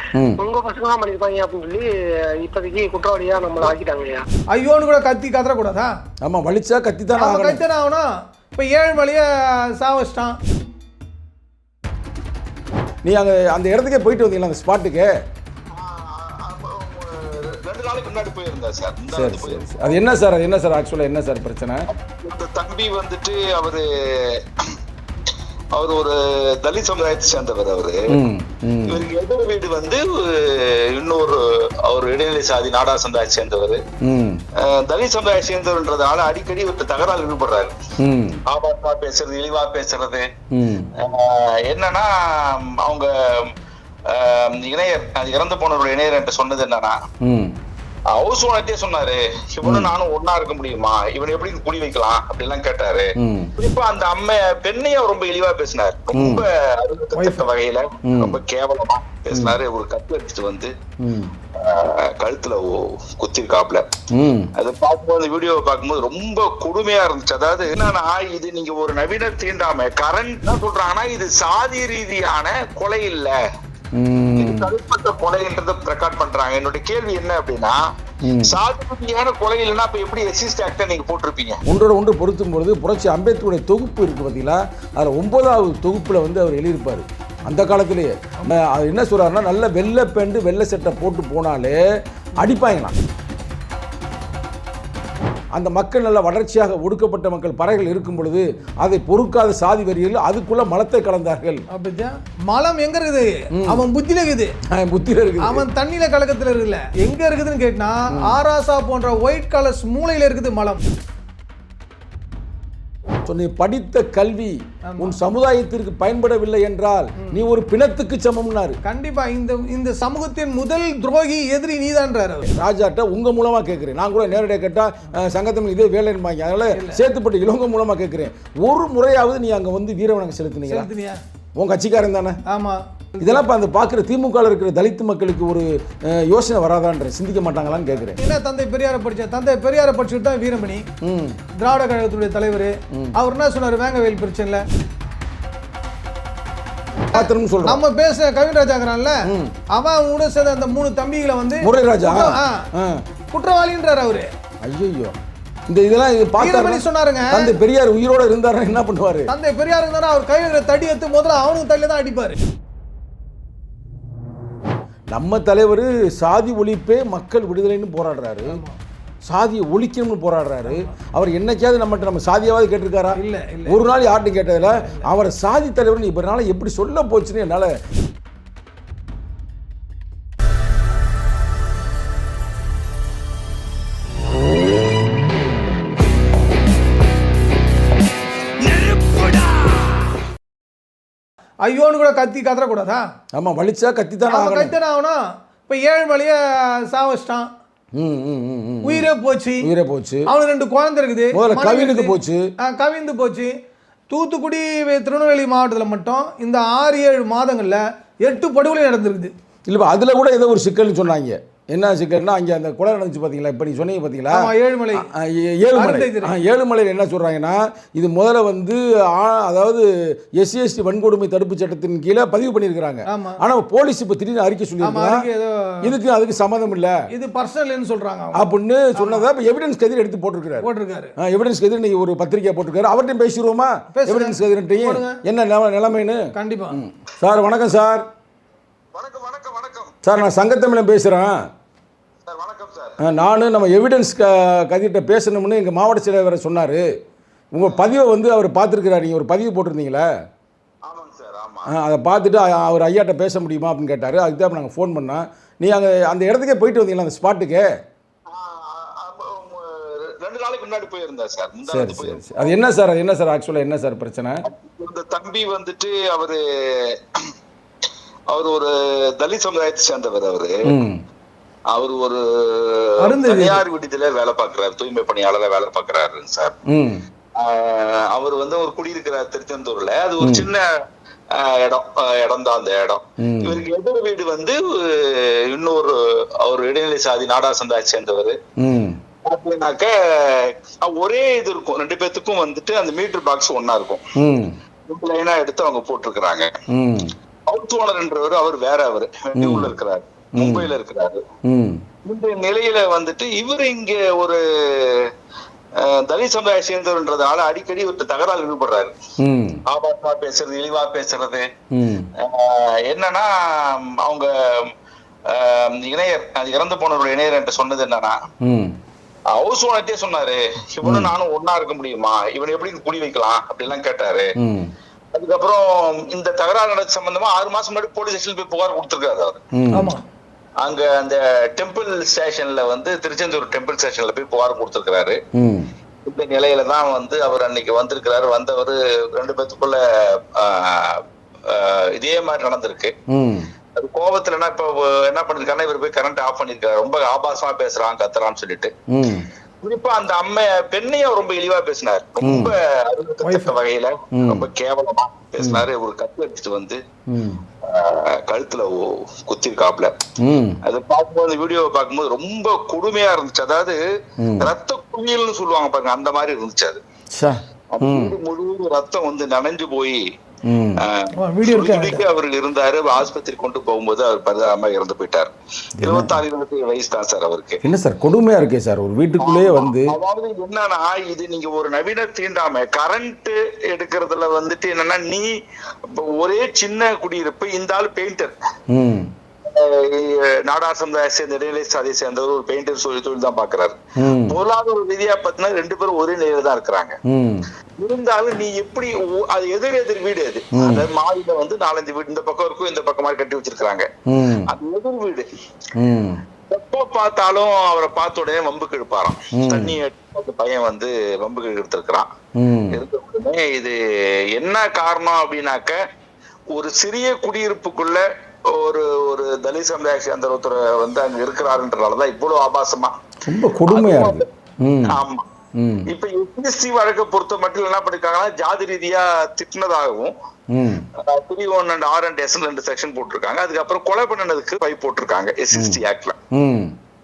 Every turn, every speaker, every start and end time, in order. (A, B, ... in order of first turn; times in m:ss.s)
0:00.1-0:00.4 A
0:00.4-0:01.9 B
0:02.4-0:04.2 B
0:04.5-0:05.9 C
0:06.2-0:07.6 A
0:07.2-0:10.4 C
0:13.0-0:15.1 A
0:15.7-0:20.0 D
0:19.1-0:21.9 A
0:21.9-0:24.7 D
0:25.7-0:28.2 D
0:28.1-0:29.0 A
0:28.8-0:33.8 D
0:34.0-0:34.4 A
0:34.6-0:37.7 D
0:38.0-0:38.4 A
0:38.5-0:40.3 D
0:40.5-0:40.9 A
0:41.0-0:43.5 D
0:44.1-0:47.0 D
0:47.2-0:47.6 A
0:48.1-1:00.7 D
0:49.6-0:49.9 A
0:53.2-0:53.5 A
0:56.1-0:56.4 A
0:57.1-0:57.5 C
0:58.0-0:58.4 A
0:59.3-0:59.6 A
1:01.0-1:01.3 A
1:01.5-1:03.9 D
1:04.1-1:04.5 A
1:04.6-1:13.4 D
1:13.9-1:14.7 A
1:14.4-1:17.8 D
1:18.2-1:18.6 A
1:18.4-1:21.6 D
1:21.6-1:31.8 A
1:32.4-1:33.0 A
1:35.5-1:41.6 A
1:41.7-1:44.5 C
1:43.6-1:43.8 A
1:44.7-1:45.6 A
1:45.4-1:50.8 C
1:48.1-1:48.4 A
1:53.3-1:58.8 A
1:54.9-1:55.2 C
1:58.8-2:02.5 C
2:02.5-2:10.9 A
2:06.7-2:07.0 C
2:10.7-2:11.2 C
2:11.6-2:12.4 A
2:12.5-2:13.4 C
2:13.2-2:18.2 A
2:18.2-2:20.8 C
2:21.0-2:21.4 A
2:21.6-2:24.6 C
2:27.1-2:27.8 A
2:27.2-2:32.7 C
2:29.3-2:29.5 A
2:31.6-2:33.0 A
2:33.3-2:34.3 C
2:34.6-2:35.2 A
2:35.7-2:39.3 A
2:36.4-2:37.5 C
2:39.3-2:42.4 C
2:45.1-2:48.6 A
2:48.4-2:48.8 C
2:49.3-2:57.8 A
2:50.6-2:50.9 C
2:53.2-2:53.8 C
2:54.6-2:55.1 C
3:08.6-3:10.1 D
3:11.6-3:13.1 C
3:13.3-3:14.7 A
3:14.3-3:17.5 C
3:17.9-3:19.1 A
3:18.8-3:19.7 C
3:19.6-3:20.3 A
3:20.3-3:23.5 C
3:21.3-3:22.5 A
3:24.1-3:29.3 C
3:29.7-3:45.3 A
3:34.3-3:35.1 C
3:35.7-3:36.4 C
3:43.1-3:43.4 C
3:44.8-3:45.9 C
3:45.8-3:47.0 A
3:47.1-3:49.3 C
3:48.3-3:58.1 A
3:50.6-3:51.1 C
3:53.9-3:55.2 C
3:56.3-3:56.8 C
3:58.9-4:00.0 D
4:00.0-4:01.4 A
4:02.2-4:03.0 D
4:03.0-4:06.8 A
4:07.5-4:10.0 A
4:07.6-4:07.8 D
4:10.8-4:11.7 D
4:11.7-4:17.7 A
4:18.3-4:22.5 D
4:21.7-4:24.4 A
4:24.4-4:27.3 D
4:28.3-4:30.7 D
4:30.7-4:31.0 A
4:31.7-4:36.6 D
4:33.0-4:33.6 C
4:36.7-4:37.0 A
4:37.4-4:40.6 D
4:40.2-4:40.5 A
4:41.3-4:48.4 D
4:43.2-4:43.6 A
4:48.6-4:49.0 A
4:49.2-4:54.1 D
4:54.2-4:54.6 A
4:54.9-4:56.5 D
4:56.7-4:57.1 A
4:57.5-5:01.2 D
4:59.4-4:59.7 A
5:00.4-5:00.7 A
5:01.4-5:01.8 A
5:02.0-5:05.1 D
5:05.8-5:08.9 D
5:09.2-5:09.6 A
5:09.7-5:11.5 D
5:11.7-5:12.1 A
5:12.2-5:14.7 D
5:15.3-5:18.2 D
5:18.4-5:18.8 A
5:19.3-5:24.3 D
5:20.8-5:21.1 A
5:24.4-5:24.7 A
5:25.1-5:29.4 D
5:29.5-5:29.9 A
5:29.7-5:30.0 C
5:30.6-5:35.2 D
5:35.3-5:35.7 A
5:36.0-5:42.9 D
5:43.1-5:43.5 A
5:43.7-5:48.7 D
5:48.9-5:49.3 A
5:49.6-5:56.8 D
5:52.2-5:52.5 A
5:53.2-5:53.5 C
5:54.1-5:54.4 A
5:55.4-5:55.7 A
5:57.1-5:57.4 A
5:57.6-5:59.9 D
6:00.2-6:00.6 A
6:00.6-6:03.8 D
6:04.2-6:04.5 A
6:04.4-6:06.8 D
6:07.1-6:08.1 A
6:07.7-6:10.0 D
6:10.4-6:10.8 A
6:10.8-6:17.6 D
6:11.2-6:12.0 C
6:15.8-6:16.2 A
6:17.6-6:19.9 A
6:19.2-6:25.3 D
6:25.8-6:28.3 D
6:28.7-6:29.1 A
6:29.4-6:37.0 D
6:34.0-6:34.4 A
6:37.1-6:37.5 A
6:37.8-6:43.9 D
6:40.5-6:40.9 A
6:44.1-6:44.5 A
6:44.4-6:45.3 D
6:45.8-6:46.2 A
6:46.5-6:52.1 D
6:49.3-6:49.8 A
6:52.4-6:52.8 A
6:52.7-6:55.8 D
6:56.5-7:02.9 D
7:03.2-7:05.0 A
7:03.7-7:04.3 D
7:04.8-7:05.2 D
7:05.6-7:05.9 A
7:05.9-7:10.1 D
7:10.5-7:10.8 A
7:10.9-7:16.2 D
7:15.5-7:15.8 A
7:16.3-7:16.8 A